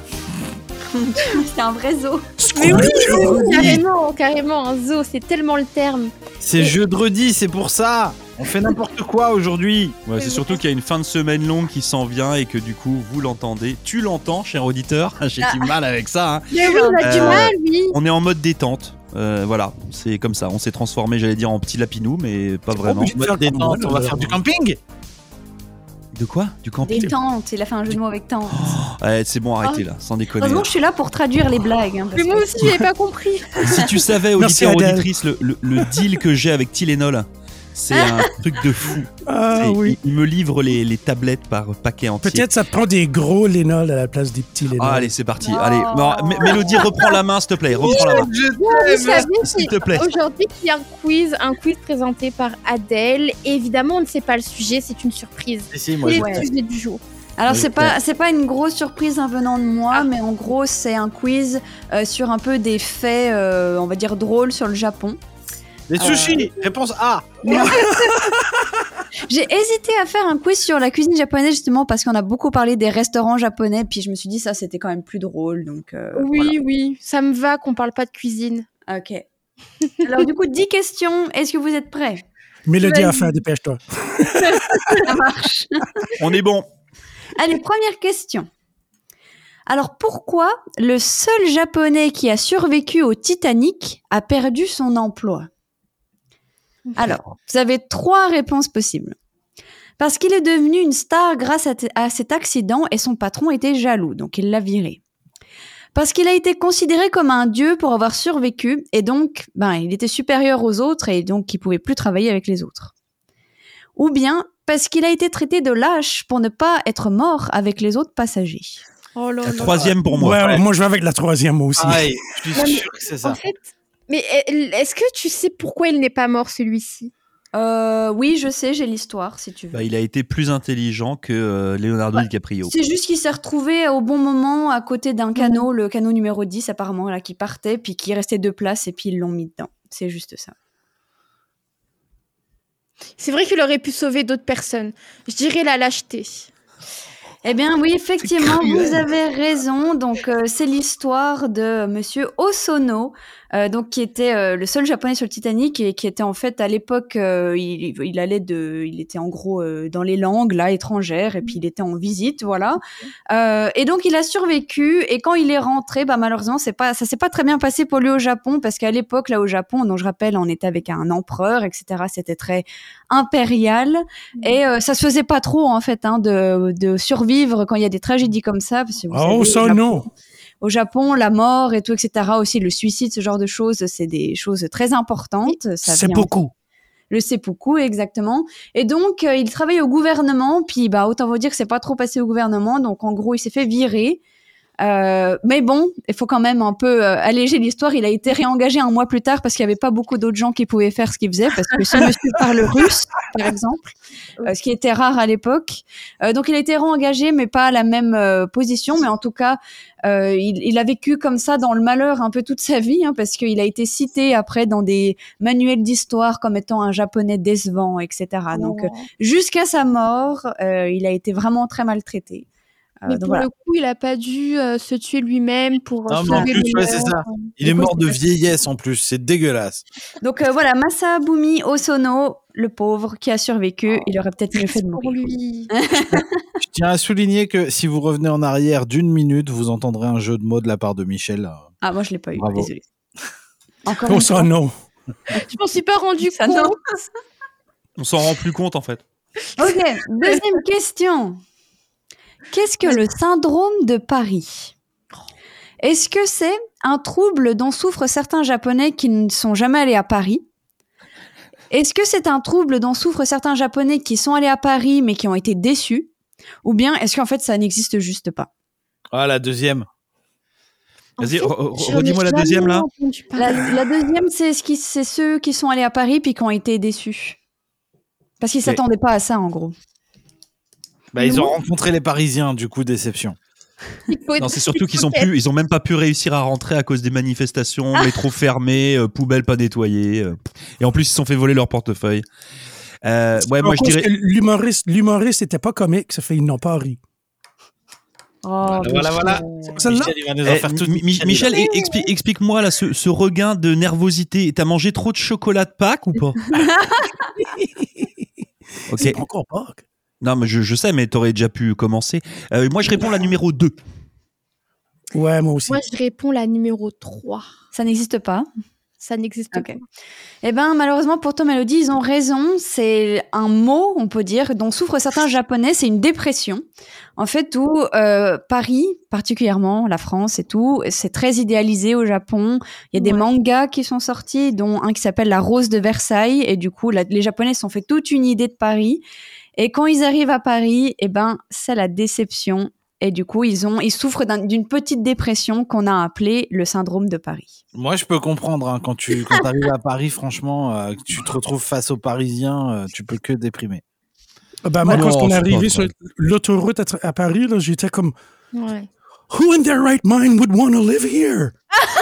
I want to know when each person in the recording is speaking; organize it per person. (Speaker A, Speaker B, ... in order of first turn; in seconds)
Speaker A: 0.9-2.3, 15.4-15.7, 16.5-17.5, 26.8-28.8, 30.4-32.7, 37.9-38.3, 45.4-47.1, 56.1-56.5, 57.4-65.2, 66.0-66.5, 67.4-68.4, 69.2-76.5, 78.9-79.2, 80.0-82.2, 85.0-86.1, 87.3-88.5, 89.7-95.5, 97.0-99.2, 100.0-105.0, 105.9-112.9, 114.0-118.8, 127.5-129.9, 132.2-140.5, 147.4-180.1, 180.6-186.3, 187.1-194.2, 194.8-222.4, 223.0-223.5, 226.2-226.8, 230.2-236.2, 241.8-242.8, 243.8-244.5, 246.2-247.1, 249.6-251.4, 252.5-254.7, 255.8-260.4, 261.7-266.1, 266.6-268.5, 273.4-277.4, 278.4-279.7, 298.4-299.8, 306.5-307.1, 317.7-318.5, 320.4-326.6, 327.2-339.0, 339.6-347.6
Speaker B: 2.4-3.6, 22.8-24.4, 32.6-32.9, 34.4-35.1, 39.2-40.0, 42.2-45.1, 67.7-68.5, 82.7-85.0, 120.1-122.2, 179.1-180.1, 185.8-186.5, 244.0-244.7, 293.4-297.0, 299.8-300.1, 307.4-308.1, 308.9-309.8, 315.1-315.8, 354.6-358.1, 359.3-361.5
Speaker C: 2.5-6.7, 10.2-10.6, 16.5-18.0, 32.1-33.7, 47.9-57.0, 76.1-78.7, 82.8-83.4, 84.3-85.1, 119.1-120.1, 122.5-127.1, 135.4-135.7, 143.2-146.5, 218.5-219.1, 223.1-228.2, 234.5-235.7, 245.3-246.8, 271.2-273.8, 281.2-281.6, 284.1-285.3, 301.4-302.0, 315.7-317.5, 319.0-319.8, 332.9-333.2, 358.5-358.9
Speaker D: 2.6-3.8, 6.4-10.2, 23.0-24.8, 47.8-49.4, 55.7-56.5, 57.5-58.0, 65.9-67.7, 119.7-120.6, 121.8-123.4, 226.1-229.8, 236.6-241.6, 242.4-242.7, 269.1-269.9, 281.1-283.4, 298.6-301.5, 347.7-353.8, 354.8-355.9
Speaker E: 3.5-3.8, 10.1-23.1, 26.1-27.1, 28.5-30.7, 33.6-42.5, 44.8-48.3, 49.4-50.1, 86.2-86.7, 119.4-120.5, 129.7-132.7, 248.0-249.0, 271.2-272.9, 284.4-292.2, 293.0-294.1, 300.4-306.7, 308.9-309.2, 310.2-313.8, 354.9-355.3